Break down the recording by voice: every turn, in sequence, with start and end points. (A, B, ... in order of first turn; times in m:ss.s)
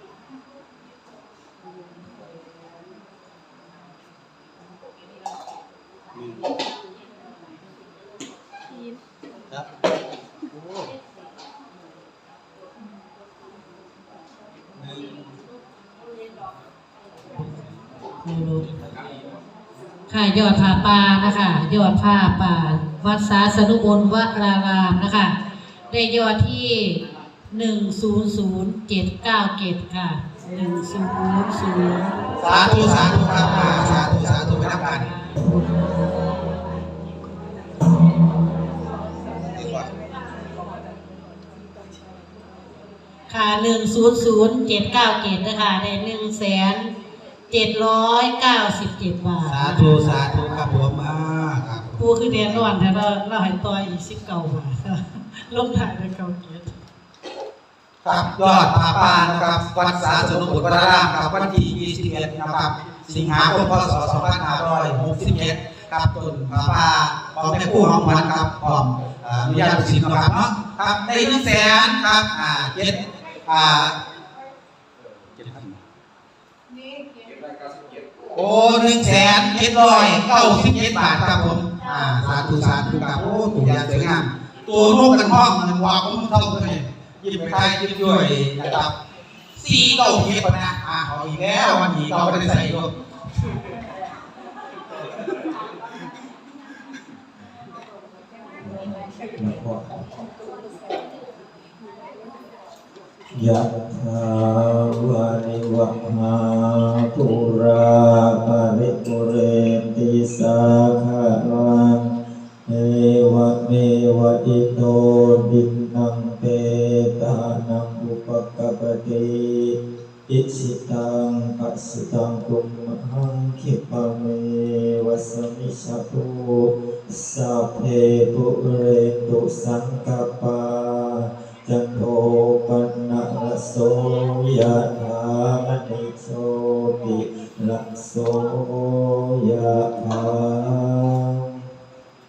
0:18.2-0:18.7 A
0:20.1-0:25.4 A
0:25.9-0:35.3 A
0:32.4-0:35.1 B
0:39.6-0:39.9 B
0:43.3-0:46.9 A
0:47.5-0:50.1 A
0:49.4-0:52.7 B
0:52.0-0:56.7 A
0:58.0-1:14.0 B
1:15.4-1:15.8 B
1:18.3-1:28.9 B
1:29.5-1:32.9 B
1:38.6-1:40.1 C
1:43.3-1:52.2 C
1:52.7-2:21.7 C